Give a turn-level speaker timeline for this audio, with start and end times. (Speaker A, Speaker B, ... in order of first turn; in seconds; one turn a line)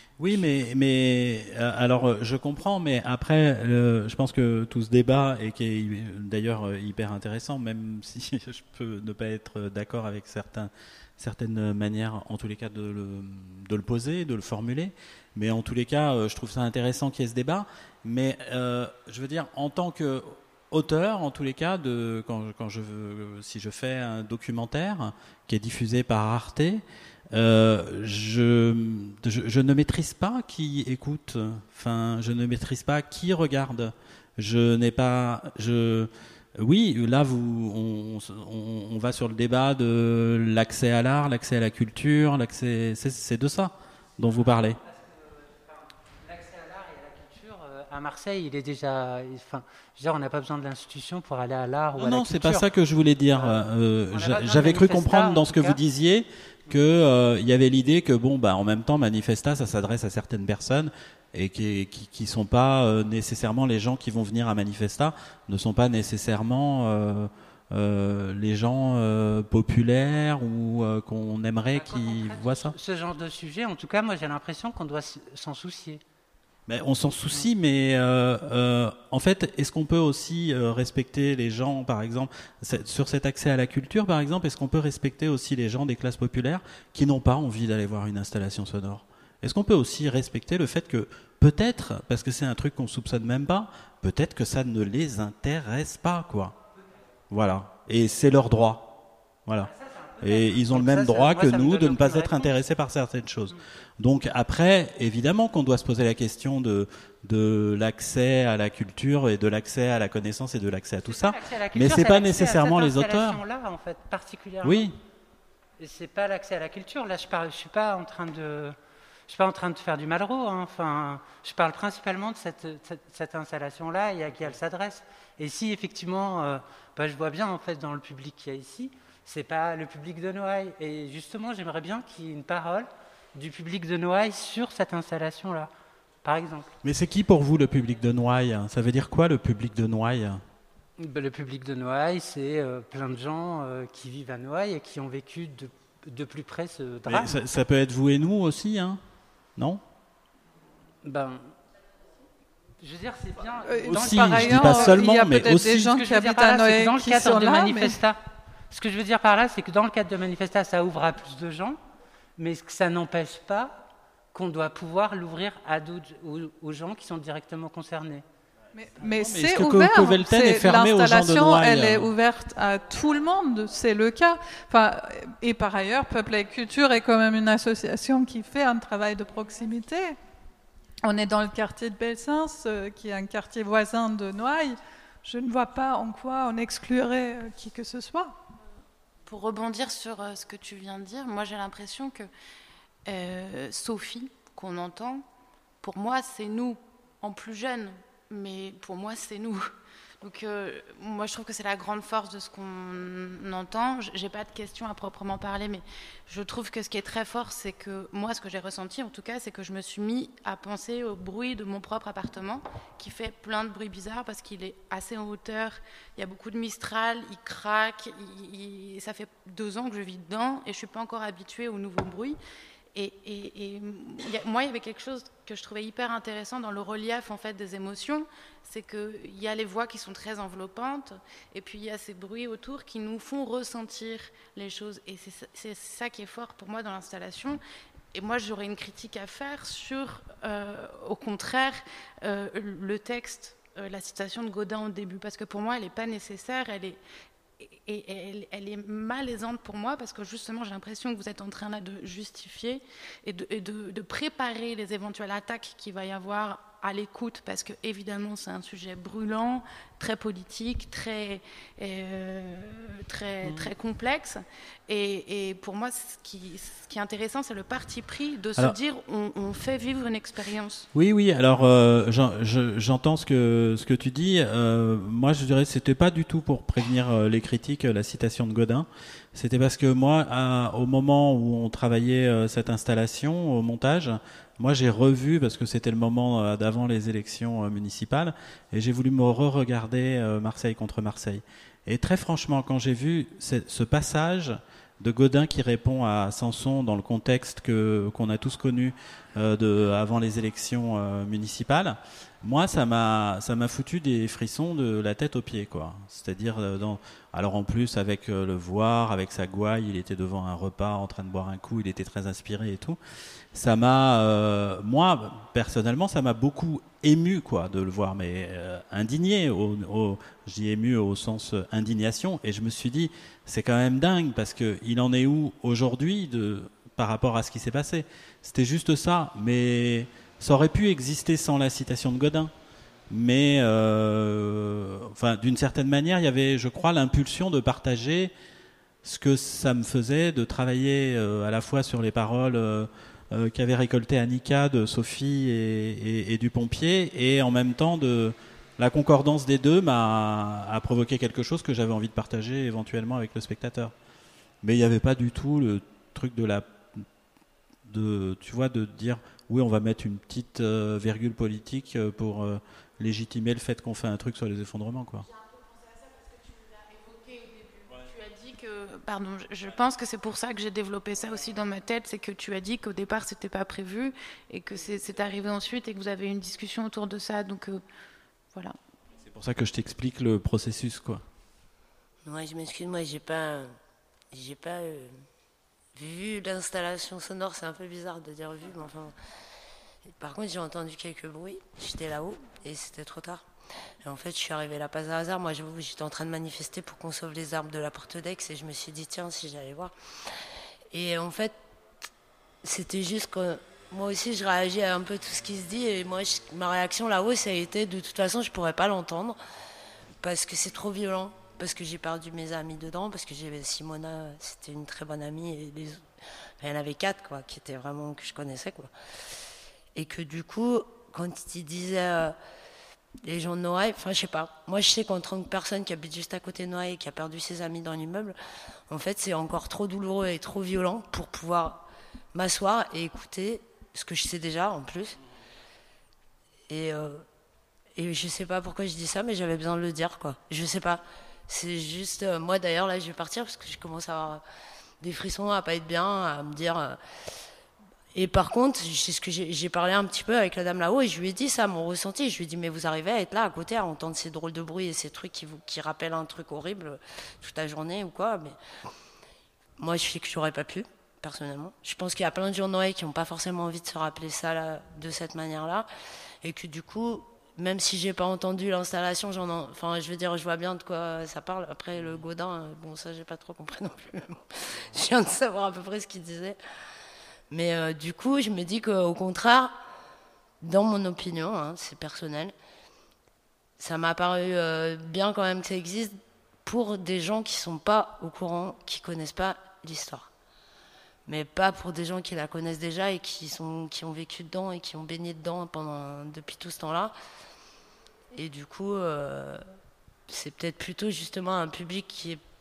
Speaker A: 0.2-44.8
Speaker B: 44.8-52.6
Speaker A: 52.0-72.8
Speaker B: 53.3-55.8
Speaker B: 71.7-76.0
Speaker A: 76.7-96.6
Speaker A: 97.3-98.9
Speaker A: 99.5-113.4
Speaker B: 99.6-102.5
Speaker B: 111.0-114.9
Speaker A: 114.6-114.9
Speaker B: 115.8-118.8
Speaker B: 119.3-135.7
Speaker B: 136.2-136.7
Speaker A: 136.8-140.4
Speaker B: 141.0-147.4
Speaker A: 147.1-149.0
Speaker B: 151.0-151.5
Speaker B: 152.8-155.2
Speaker C: 153.7-158.0
Speaker A: 153.9-155.9
Speaker B: 155.8-158.2
Speaker B: 158.7-161.8
Speaker B: 162.4-168.2
Speaker C: 168.8-180.2
Speaker A: 169.1-172.1
Speaker C: 181.0-188.3
Speaker D: 189.3-192.3
Speaker D: 193.1-195.3
Speaker D: 195.8-199.7
Speaker D: 200.2-222.4
Speaker D: 222.9-237.6
Speaker D: 238.1-247.0
Speaker D: 247.6-270.9
Speaker A: 263.4-263.7
Speaker A: 270.9-313.0
Speaker A: 313.5-332.5
Speaker A: 333.1-338.3
Speaker A: 339.0-353.9
Speaker A: 354.6-357.1
Speaker A: 357.9-365.3
Speaker D: 366.2-377.8
Speaker A: 379.3-381.2
Speaker E: 382.3-383.8
Speaker E: 384.3-385.2
Speaker E: 385.9-389.1
Speaker E: 390.2-393.4
Speaker E: 394.0-399.9
Speaker E: 400.9-401.6
Speaker E: 402.6-409.4
Speaker E: 410.2-416.1
Speaker E: 416.6-418.9
Speaker E: 419.9-422.4
Speaker E: 423.2-428.4
Speaker E: 428.9-435.2
Speaker E: 436.7-437.2
Speaker E: 437.9-444.4
Speaker E: 445.0-447.0
Speaker E: 448.1-458.6
Speaker E: 459.8-465.9
Speaker E: 466.4-476.6
Speaker E: 477.5-479.7
Speaker E: 480.6-482.5
Speaker E: 483.8-490.3
Speaker E: 491.3-497.1
Speaker E: 498.3-499.6
Speaker E: 500.3-502.4